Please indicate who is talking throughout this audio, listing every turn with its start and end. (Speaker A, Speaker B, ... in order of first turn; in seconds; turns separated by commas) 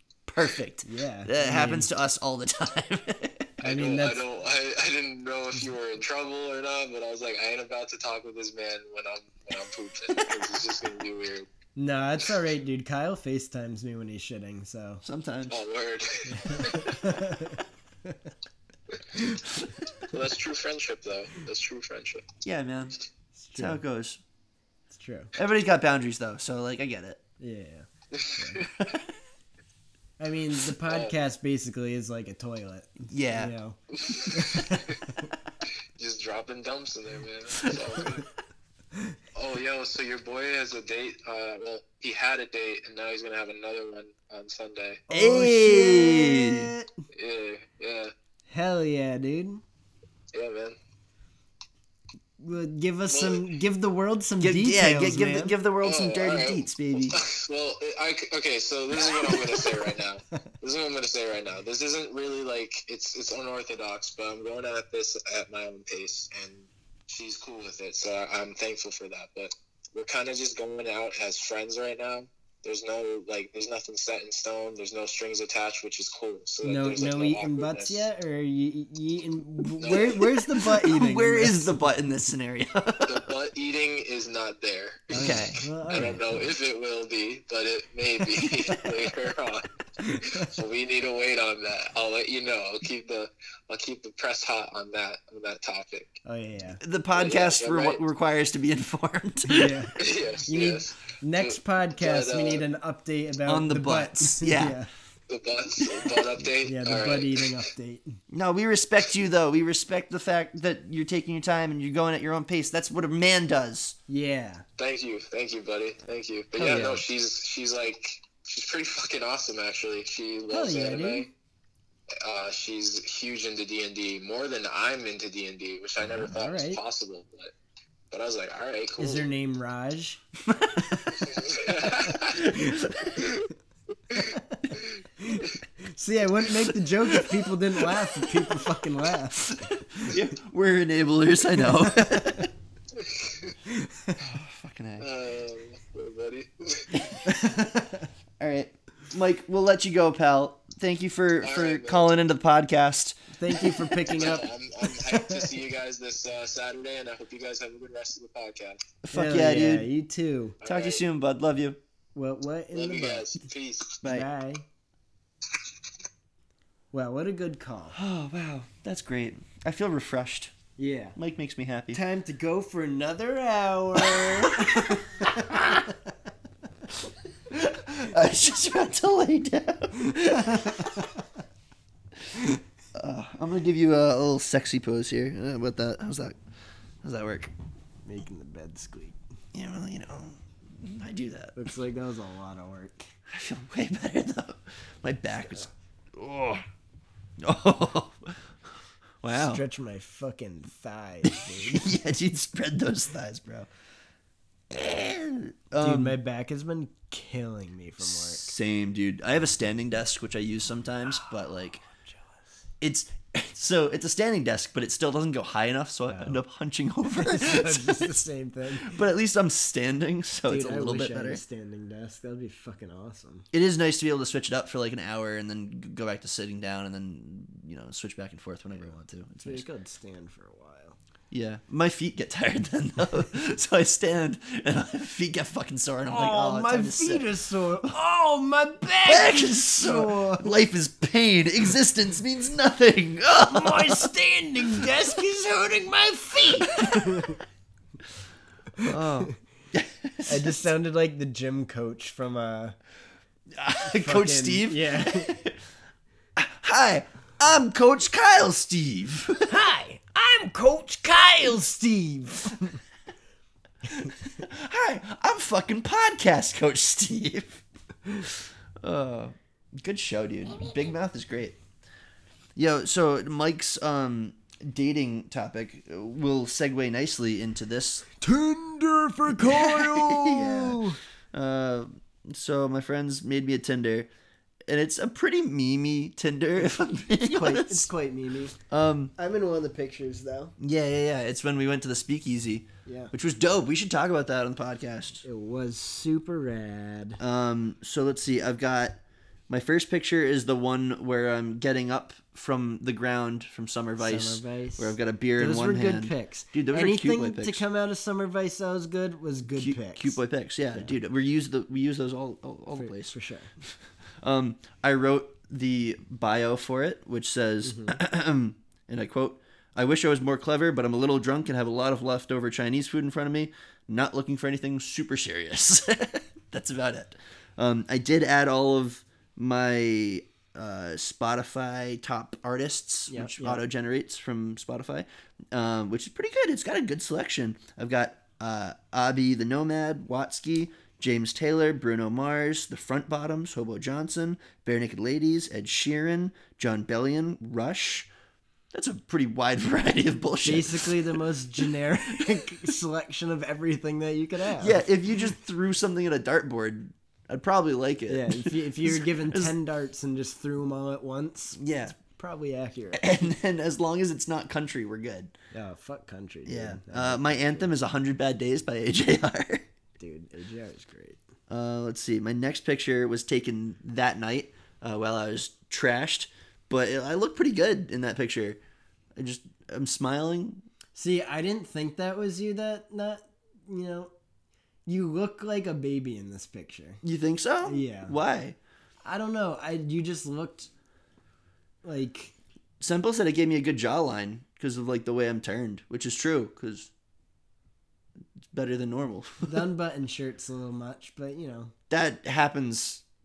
Speaker A: 0.3-3.5, Speaker B: 0.8-1.9, Speaker C: 3.6-11.5, Speaker B: 3.6-4.2, Speaker B: 11.8-15.0, Speaker A: 15.0-15.6, Speaker C: 15.5-17.2, Speaker B: 16.3-18.2, Speaker B: 19.1-19.4, Speaker A: 19.6-19.9, Speaker C: 20.0-22.2, Speaker A: 22.4-22.9, Speaker B: 23.3-23.8, Speaker A: 23.6-24.2, Speaker B: 24.9-25.3, Speaker A: 25.4-27.2, Speaker B: 27.4-28.7, Speaker C: 28.1-29.0, Speaker B: 30.2-33.8, Speaker C: 30.8-31.1, Speaker A: 33.1-33.5, Speaker C: 33.9-35.0, Speaker B: 34.3-35.3, Speaker C: 36.0-38.2, Speaker C: 39.3-45.0, Speaker A: 45.1-46.7, Speaker B: 45.1-46.9, Speaker C: 47.1-48.1, Speaker B: 48.5-49.6, Speaker C: 50.3-50.8, Speaker B: 52.4-55.5, Speaker C: 53.1-53.5, Speaker A: 54.4-57.2, Speaker C: 55.8-78.1, Speaker A: 59.1-59.4, Speaker B: 76.6-81.9, Speaker C: 79.8-80.2, Speaker A: 79.9-83.3, Speaker C: 83.0-96.2, Speaker A: 85.1-85.6, Speaker B: 85.1-86.4, Speaker A: 88.3-89.1, Speaker B: 90.0-90.5, Speaker B: 96.2-96.8, Speaker A: 96.8-99.9, Speaker C: 97.1-98.0, Speaker B: 99.5-104.9, Speaker C: 100.0-102.7, Speaker A: 103.5-104.8, Speaker C: 105.3-107.6, Speaker A: 105.8-106.2, Speaker B: 106.6-108.2, Speaker A: 108.3-114.0, Speaker B: 114.1-114.6, Speaker C: 114.8-121.3, Speaker B: 116.6-117.0, Speaker B: 120.5-121.3, Speaker C: 122.2-127.5, Speaker B: 126.0-126.8, Speaker C: 128.1-129.3, Speaker B: 129.0-130.2, Speaker A: 130.4-131.4, Speaker C: 131.3-132.5, Speaker B: 131.8-132.9, Speaker A: 132.3-133.3, Speaker C: 134.1-134.9, Speaker B: 134.1-140.1, Speaker A: 136.7-137.4, Speaker A: 137.9-138.6, Speaker A: 139.4-142.5, Speaker C: 142.9-143.5, Speaker B: 143.7-144.2, Speaker A: 144.2-145.1, Speaker C: 145.0-147.0, Speaker A: 146.9-147.7, Speaker B: 147.2-148.1, Speaker A: 148.4-153.2, Speaker C: 151.4-152.2, Speaker B: 153.3-155.5, Speaker C: 153.6-158.8, Speaker A: 159.0-159.9, Speaker B: 159.1-160.6, Speaker C: 160.6-161.0, Speaker A: 160.6-161.8, Speaker B: 162.1-163.3, Speaker C: 162.7-164.0, Speaker B: 164.0-164.6, Speaker B: 166.9-168.0, Speaker A: 167.9-170.5, Speaker B: 170.8-171.2, Speaker A: 171.2-172.0, Speaker B: 171.9-175.7, Speaker A: 174.0-174.4, Speaker A: 177.0-181.1, Speaker B: 180.3-181.1, Speaker A: 182.9-186.4, Speaker A: 187.0-187.5, Speaker B: 188.0-189.2, Speaker A: 189.5-191.6, Speaker B: 191.6-193.1, Speaker A: 193.3-196.6, Speaker A: 197.4-198.4, Speaker A: 199.2-199.6, Speaker B: 199.3-201.9, Speaker A: 201.2-203.7, Speaker A: 204.7-206.2, Speaker B: 205.8-208.5, Speaker A: 208.0-211.8, Speaker B: 212.1-212.4, Speaker A: 212.8-218.1, Speaker B: 216.1-216.4, Speaker B: 217.1-219.0, Speaker A: 218.7-221.4, Speaker B: 220.5-223.5, Speaker A: 223.5-229.7, Speaker B: 229.4-231.0, Speaker A: 231.3-237.3, Speaker B: 236.1-240.5, Speaker A: 239.0-244.9, Speaker B: 243.5-247.4, Speaker A: 246.6-247.3, Speaker A: 248.8-250.7, Speaker B: 248.8-249.3, Speaker B: 250.2-252.8, Speaker A: 253.5-255.6, Speaker B: 253.8-255.3, Speaker A: 256.4-259.5, Speaker B: 259.4-262.8, Speaker A: 263.9-267.6, Speaker A: 268.3-271.6, Speaker A: 272.6-278.1, Speaker B: 278.1-281.0, Speaker A: 279.3-284.1, Speaker A: 284.7-287.9, Speaker B: 287.3-288.6, Speaker A: 288.7-289.1, Speaker B: 289.2-290.6, Speaker A: 290.6-295.2, Speaker B: 292.9-293.1, Speaker B: 295.2-297.2, Speaker A: 297.2-307.6, Speaker B: 304.0-310.2, Speaker A: 309.5-348.1, Speaker B: 312.7-313.5, Speaker B: 317.6-318.0, Speaker B: 333.1-333.6, Speaker A: 348.7-352.6, Speaker B: 350.4-354.9, Speaker A: 354.6-359.6, Speaker B: 358.1-363.2, Speaker A: 361.6-361.9, Speaker A: 362.9-365.3, Speaker B: 365.5-367.7, Speaker A: 366.5-369.6, Speaker B: 370.0-371.2, Speaker A: 371.5-378.6, Speaker A: 379.1-380.6, Speaker B: 380.9-384.1, Speaker B: 384.9-387.0, Speaker A: 387.0-388.6, Speaker B: 387.6-388.1, Speaker B: 389.0-390.7, Speaker B: 391.8-392.3, Speaker A: 392.8-396.9, Speaker A: 398.5-399.6, Speaker B: 399.4-401.7, Speaker A: 401.9-403.0